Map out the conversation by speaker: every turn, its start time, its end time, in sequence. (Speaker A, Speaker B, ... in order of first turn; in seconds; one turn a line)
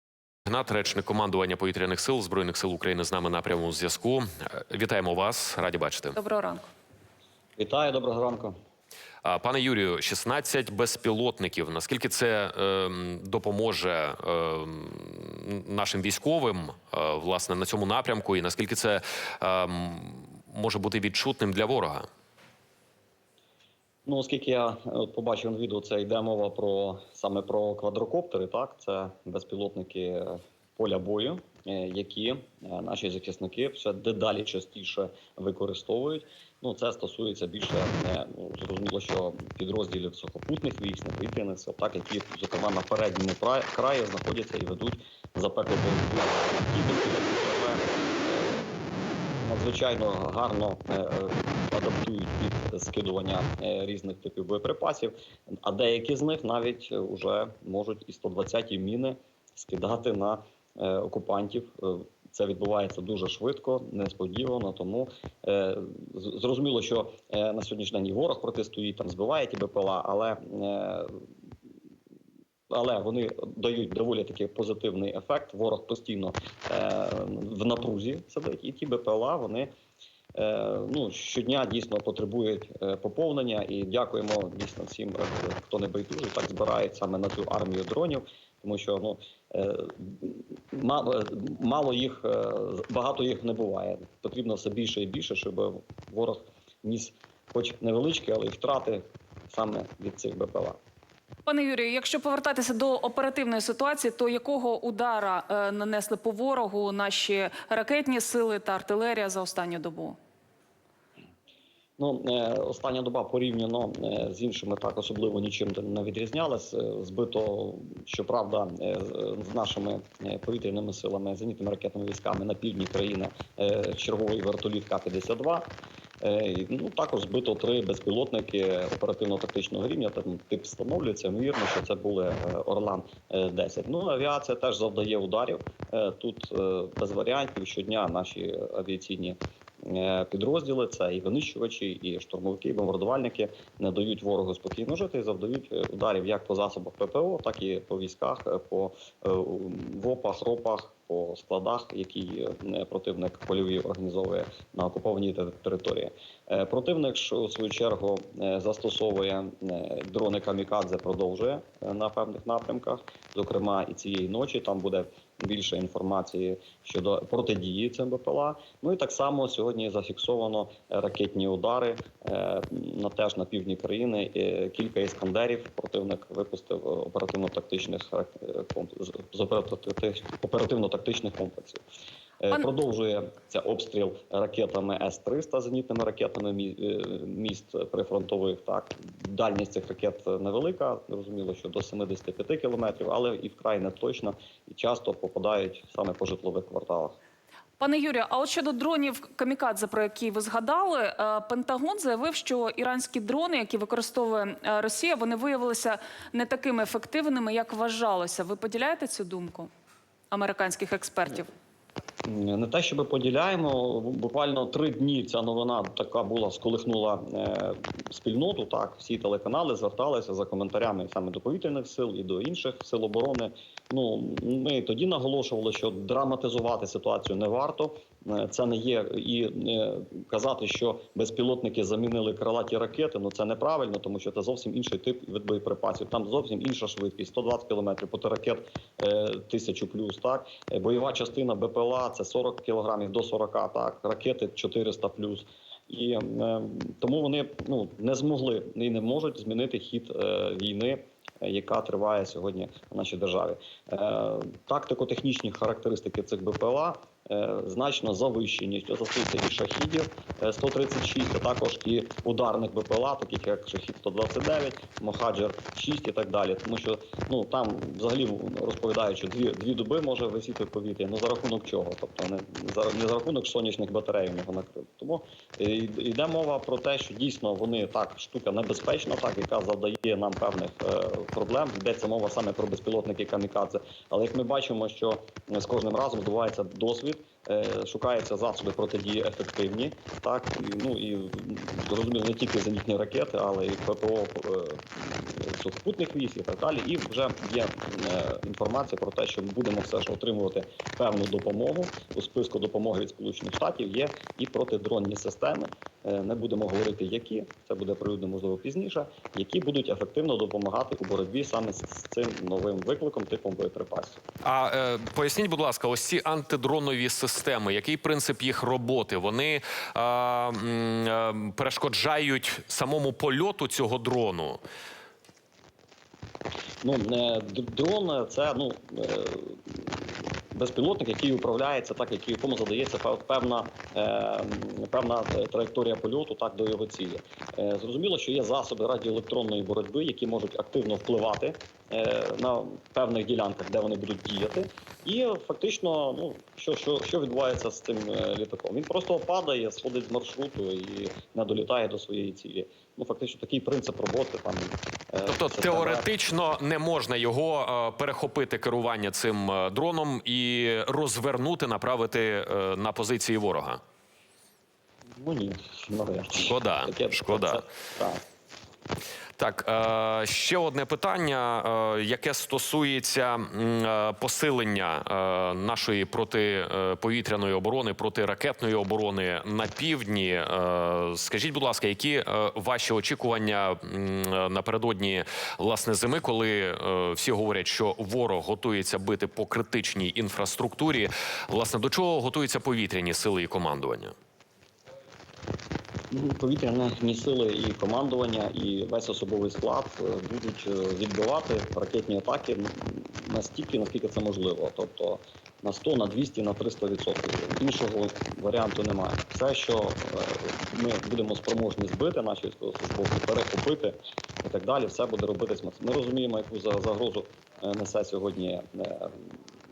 Speaker A: 0.5-6.2
Speaker B: 6.1-6.7
Speaker C: 7.6-8.6
Speaker A: 9.2-22.1
Speaker C: 24.1-48.8
Speaker C: 49.4-71.2
Speaker C: 72.7-79.7
Speaker C: 80.3-100.8
Speaker B: 101.5-110.2
Speaker C: 112.0-125.7
Speaker C: 126.2-181.8
Speaker C: 182.4-197.2
Speaker B: 197.8-209.7
Speaker B: 210.3-211.5
Speaker C: 212.2-314.2
Speaker A: 314.4-324.6
Speaker C: 326.8-329.9
Speaker C: 330.5-356.1
Speaker A: 355.2-363.8
Speaker C: 365.2-368.2
Speaker A: 366.4-367.6
Speaker A: 369.4-394.1
Speaker C: 396.1-419.2